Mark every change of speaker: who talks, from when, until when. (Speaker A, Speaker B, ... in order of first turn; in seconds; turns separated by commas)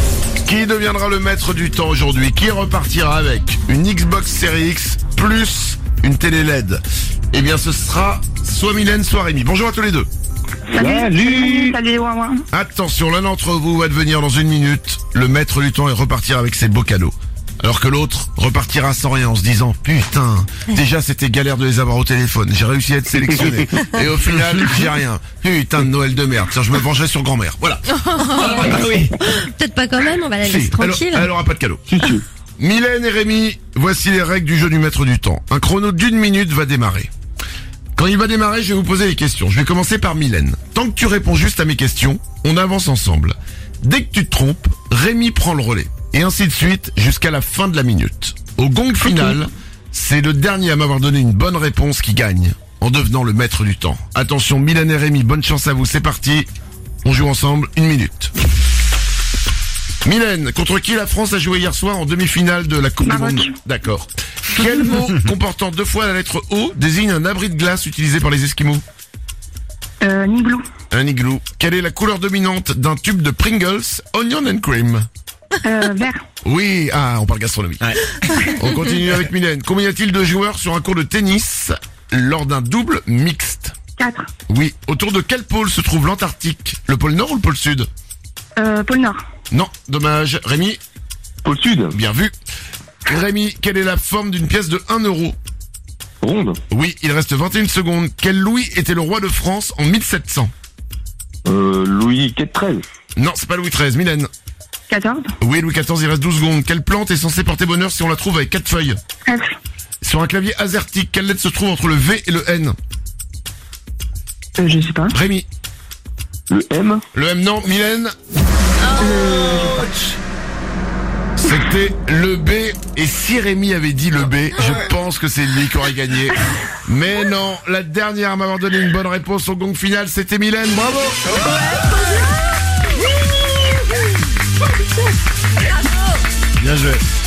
Speaker A: 0.4-10.1, Speaker B: 10.7-12.4, Speaker C: 10.7-11.8, Speaker A: 12.5-29.1, Speaker D: 28.0-31.3, Speaker C: 28.6-29.0, Speaker A: 30.4-31.8, Speaker C: 31.9-32.2, Speaker A: 32.6-37.1, Speaker A: 38.0-56.5, Speaker A: 57.0-58.3, Speaker A: 60.0-68.8, Speaker B: 63.0-63.5, Speaker B: 70.0-70.6, Speaker A: 70.9-75.1, Speaker B: 75.6-76.2, Speaker A: 76.4-83.7, Speaker B: 84.0-84.3, Speaker A: 84.5-87.9, Speaker B: 88.6-89.2, Speaker A: 89.5-90.8, Speaker C: 91.4-92.0, Speaker A: 91.9-92.3, Speaker A: 93.0-95.3, Speaker C: 96.2-96.6, Speaker A: 96.7-100.5, Speaker C: 101.4-102.8, Speaker A: 103.2-104.3, Speaker B: 104.9-105.3, Speaker A: 105.4-109.0, Speaker B: 109.2-109.5, Speaker A: 110.0-112.8, Speaker B: 114.6-115.1, Speaker A: 115.1-115.5, Speaker C: 116.5-117.0, Speaker A: 117.1-118.1, Speaker D: 119.0-119.7, Speaker B: 119.0-120.0, Speaker A: 121.4-131.2, Speaker A: 136.6-137.0